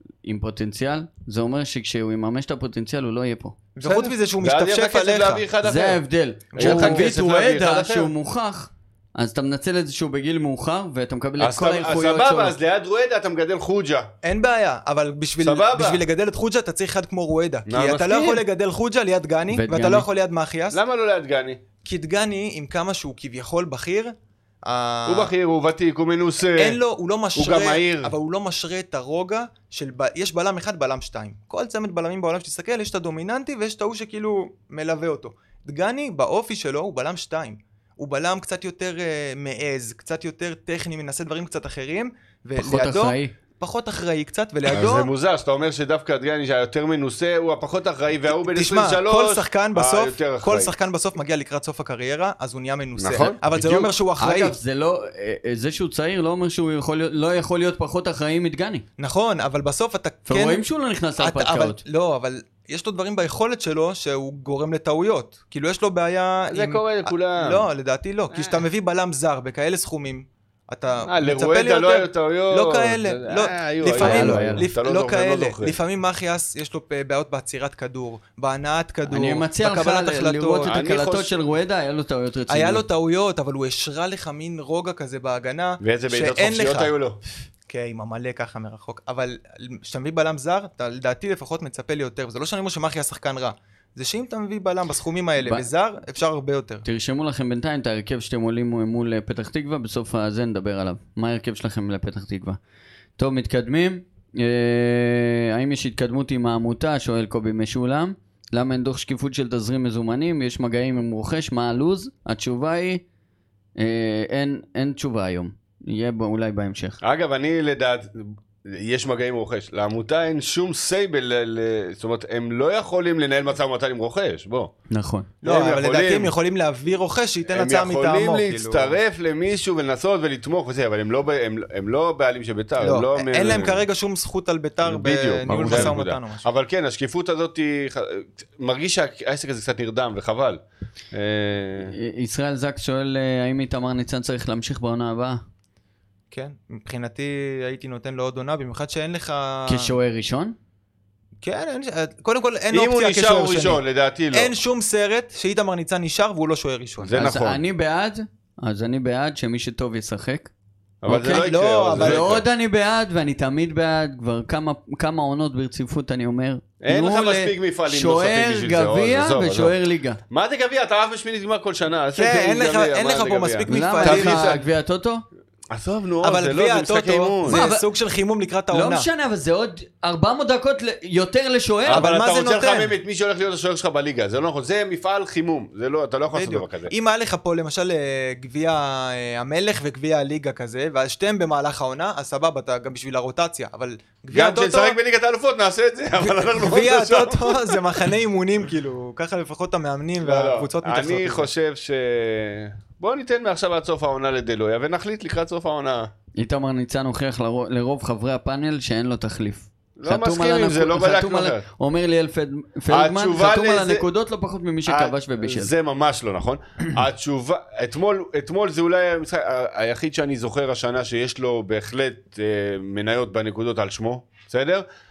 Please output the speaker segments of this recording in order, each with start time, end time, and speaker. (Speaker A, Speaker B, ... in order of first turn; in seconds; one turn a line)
Speaker A: 0.2-3.7
Speaker B: 3.8-5.4
Speaker C: 3.8-6.0
Speaker A: 5.6-12.6
Speaker B: 6.5-7.1
Speaker C: 6.5-8.1
Speaker C: 11.4-14.1
Speaker B: 14.2-20.8
Speaker C: 15.4-16.0
Speaker C: 17.7-18.4
Speaker A: 19.5-20.1
Speaker C: 20.7-21.6
Speaker B: 21.8-25.3
Speaker C: 25.1-26.8
Speaker B: 26.5-45.1
Speaker C: 27.4-28.1
Speaker A: 42.6-43.3
Speaker C: 44.7-50.7
Speaker B: 48.3-54.5
Speaker C: 53.0-53.4
Speaker A: 53.5-58.8
Speaker B: 59.0-60.6
Speaker A: 60.3-61.8
Speaker B: 61.2-80.7
Speaker C: 66.5-67.7
Speaker C: 68.3-68.6
Speaker C: 71.0-75.8
Speaker A: 74.0-74.7
Speaker A: 79.1-82.8
Speaker C: 80.6-81.3
Speaker B: 82.5-86.9
Speaker C: 85.8-87.2
Speaker B: 87.7-96.8
Speaker A: 95.4-95.7
Speaker A: 96.8-102.6
Speaker A: 103.2-113.0
Speaker A: 113.8-117.0
Speaker C: 117.0-124.7
Speaker A: 124.9-125.3
Speaker C: 125.4-126.3
Speaker B: 125.4-129.0
Speaker C: 127.5-133.8
Speaker B: 132.8-136.4
Speaker C: 134.8-140.6
Speaker A: 135.5-136.0
Speaker C: 141.1-141.9
Speaker A: 141.8-145.4
Speaker B: 146.3-149.9
Speaker A: 149.7-150.6
Speaker B: 151.4-157.2
Speaker C: 152.7-154.5
Speaker C: 157.0-157.6
Speaker A: 157.2-160.5
Speaker C: 161.0-162.4
Speaker A: 161.1-170.2
Speaker B: 161.2-162.3
Speaker C: 166.8-169.7
Speaker C: 170.3-174.6
Speaker B: 172.1-174.6
Speaker A: 173.7-175.2
Speaker C: 175.7-177.6
Speaker B: 176.2-179.1
Speaker A: 177.5-177.8
Speaker A: 178.7-182.1
Speaker C: 181.8-186.9
Speaker B: 181.9-182.9
Speaker B: 186.3-195.0
Speaker C: 194.3-198.0
Speaker B: 196.2-201.5
Speaker C: 200.2-206.1
Speaker A: 206.4-215.7
Speaker C: 210.0-211.6
Speaker C: 212.9-214.1
Speaker C: 214.9-224.8